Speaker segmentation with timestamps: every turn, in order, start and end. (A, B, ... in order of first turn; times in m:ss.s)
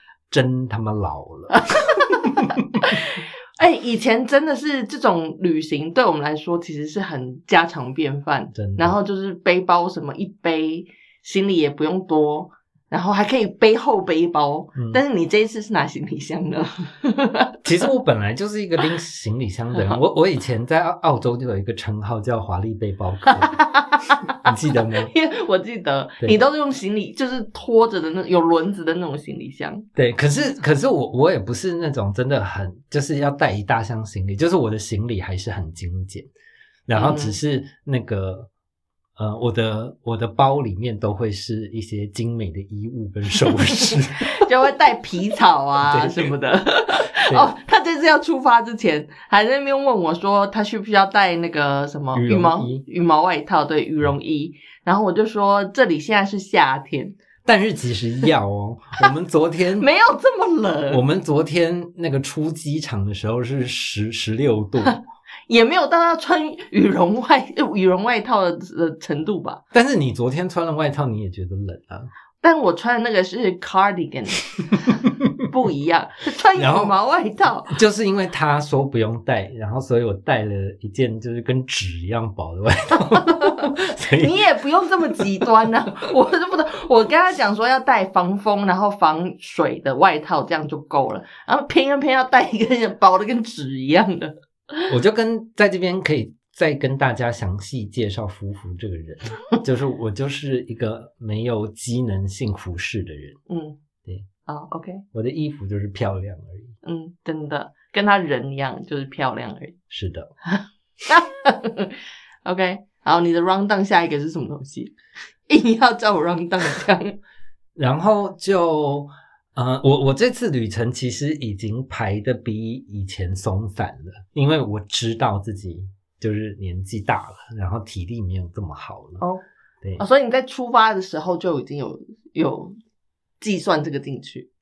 0:00.3-0:02.8 A
0:01.5-0:17.6 B
0:08.5-0:09.0 A
0:14.7-0:15.0 A
0:17.6-0:23.5 A
0:23.4-0:29.8 B
0:24.4-0:25.1 A
0:29.9-0:36.3 A
0:36.9-0:38.5 A
0:36.9-0:37.4 B
0:39.2-0:44.4 A
0:43.4-0:57.2 B
0:45.8-0:46.4 A
0:47.0-0:47.5 A
0:52.1-0:52.8 A
0:57.4-0:59.9 A
0:59.8-1:01.0 B
1:00.9-1:05.0 A
1:04.8-1:09.6 B
1:09.7-1:12.1 A
1:12.4-1:14.9 B
1:15.0-1:15.3 A
1:15.5-1:17.8 B
1:16.5-1:16.9 A
1:17.7-1:24.4 A
1:23.0-1:34.9 B
1:25.1-1:25.5 A
1:34.9-1:43.4 A
1:43.5-1:43.8 B
1:44.4-1:45.0 B
1:45.1-1:46.7 A
1:46.8-1:49.8 B
1:49.9-1:50.3 A
1:50.4-1:54.9 B
1:55.5-1:57.2 B
1:57.8-2:09.2 A
2:10.0-2:12.7 B
2:13.4-2:14.5 B